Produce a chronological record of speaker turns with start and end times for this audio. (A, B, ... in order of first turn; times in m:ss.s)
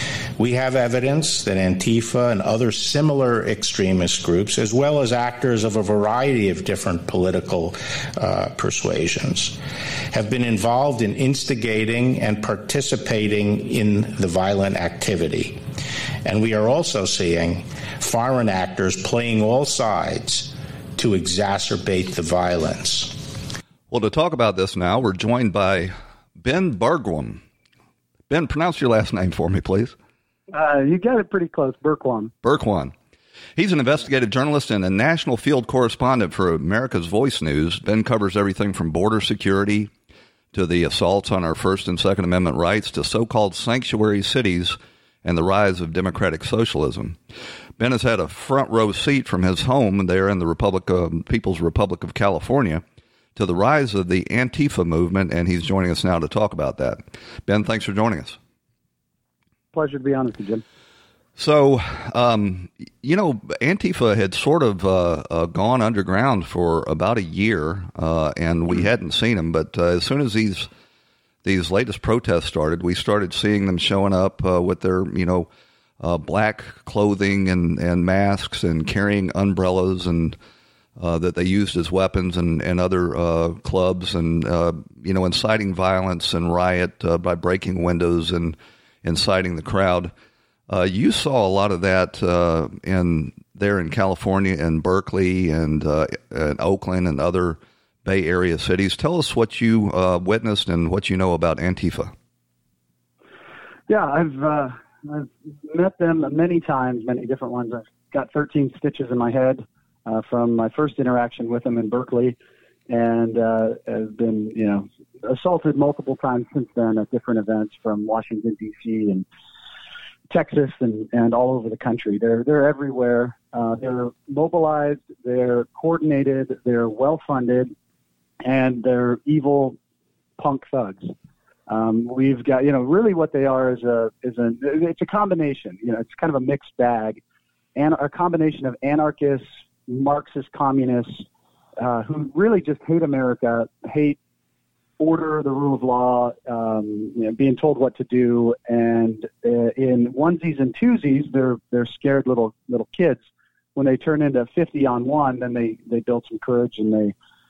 0:00.4-0:09.6 A
0:10.1-0:15.6 A
0:16.2-0:23.2 A
0:23.9-0:27.4 B
0:28.3-0:29.9 B
0:30.5-0:32.3 C
0:32.4-0:32.9 B
0:33.6-0:39.9 B
0:40.5-0:47.2 B
0:47.8-0:52.8 B
0:53.4-0:58.4 B
0:59.7-1:00.6 C
1:01.4-1:10.7 B
1:11.4-1:20.4 B
1:21.0-1:30.1 B
1:30.7-1:42.1 B
1:43.9-1:52.4 C
1:52.9-1:59.2 C
2:00.3-2:07.7 C
2:08.4-2:09.8 C
2:10.4-2:11.1 C
2:11.7-2:17.2 C
2:17.8-2:21.2 C
2:21.8-2:24.2 C
2:25.0-2:33.2 C
2:33.7-2:37.1 C